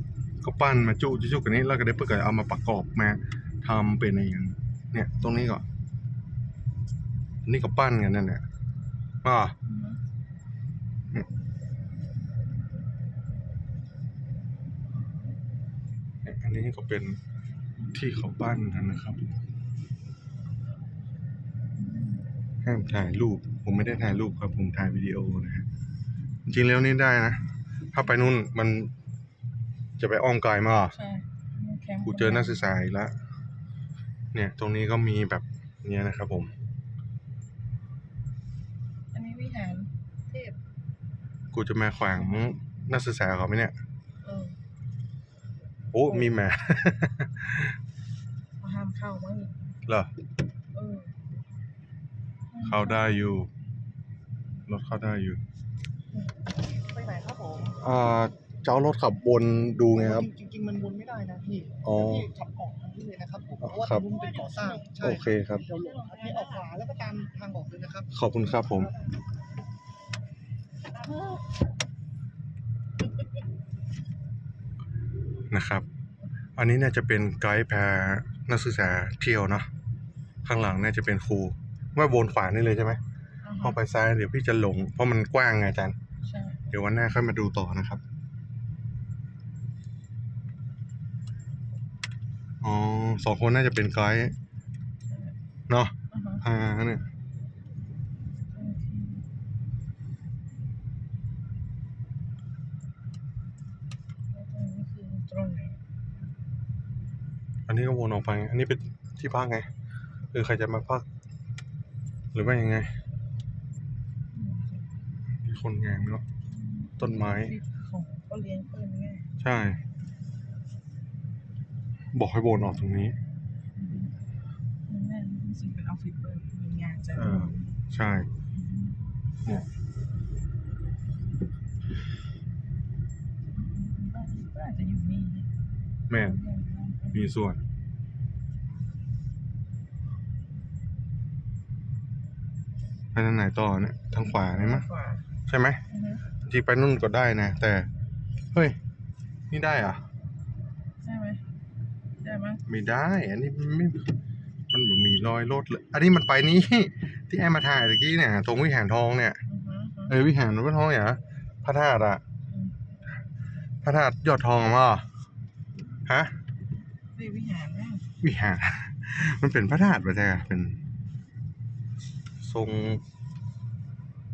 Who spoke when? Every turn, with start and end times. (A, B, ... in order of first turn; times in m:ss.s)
0:00.4-0:05.6 A
0:07.4-0:08.4 A
0:09.2-0:09.5 A
0:09.7-0:10.0 B
0:16.2-0:17.2 A
0:17.9-0:19.4 A
0:21.8-0:22.2 B
0:22.6-0:25.7 A
0:26.5-0:27.4 A
0:27.9-0:28.9 A
0:30.0-0:31.0 A
0:30.9-0:32.6 B
0:32.0-0:33.1 A
0:34.3-0:36.5 A
0:39.1-0:40.6 B
0:41.5-0:43.7 A
0:44.2-0:44.6 B
0:45.9-0:47.7 A
0:48.6-0:49.7 B
0:50.7-0:51.1 B
0:52.5-0:53.1 B
0:52.6-0:53.5 A
0:54.7-0:55.4 A
0:56.8-0:57.7 C
0:57.7-1:00.3 A
1:00.2-1:08.1 C
1:01.8-1:02.3 A
1:03.6-1:04.1 A
1:04.0-1:05.0 B
1:05.0-1:05.7 A
1:05.6-1:06.7 B
1:08.1-1:08.9 A
1:15.5-1:15.8 A
1:16.6-1:19.7 A
1:20.4-1:23.0 A
1:23.4-1:23.7 B
1:23.6-1:26.0 A
1:26.2-1:26.6 B
1:26.7-1:28.0 A
1:32.6-1:34.3 A
1:35.1-1:35.3 B
1:35.7-1:37.0 A
1:36.1-1:36.4 B
1:38.5-1:39.2 B
1:44.3-1:45.8 B
1:47.7-1:49.7 A
1:50.3-1:51.0 A
1:52.3-1:52.9 A
1:54.3-1:54.9 B
1:55.4-1:56.2 A
1:56.5-1:59.3 B
1:57.0-1:57.5 A
1:59.4-1:59.8 A
2:02.1-2:03.2 A
2:03.7-2:04.1 B
2:04.9-2:07.7 B
2:07.1-2:08.3 A
2:08.5-2:09.0 B
2:13.5-2:15.5 B
2:16.1-2:16.4 A
2:16.3-2:17.3 B
2:17.1-2:17.6 A
2:23.1-2:24.9 A
2:24.5-2:25.2 B
2:25.4-2:25.8 A
2:25.9-2:26.2 B
2:26.4-2:27.9 A
2:29.5-2:30.0 A
2:31.0-2:31.4 B
2:32.2-2:32.6 B
2:32.6-2:34.1 A
2:34.7-2:39.4 A
2:39.5-2:40.1 B
2:40.1-2:42.2 A
2:43.8-2:45.0 A
2:46.0-2:46.3 A
2:47.2-2:48.1 B
2:48.2-2:50.8 A
2:52.4-2:53.0 A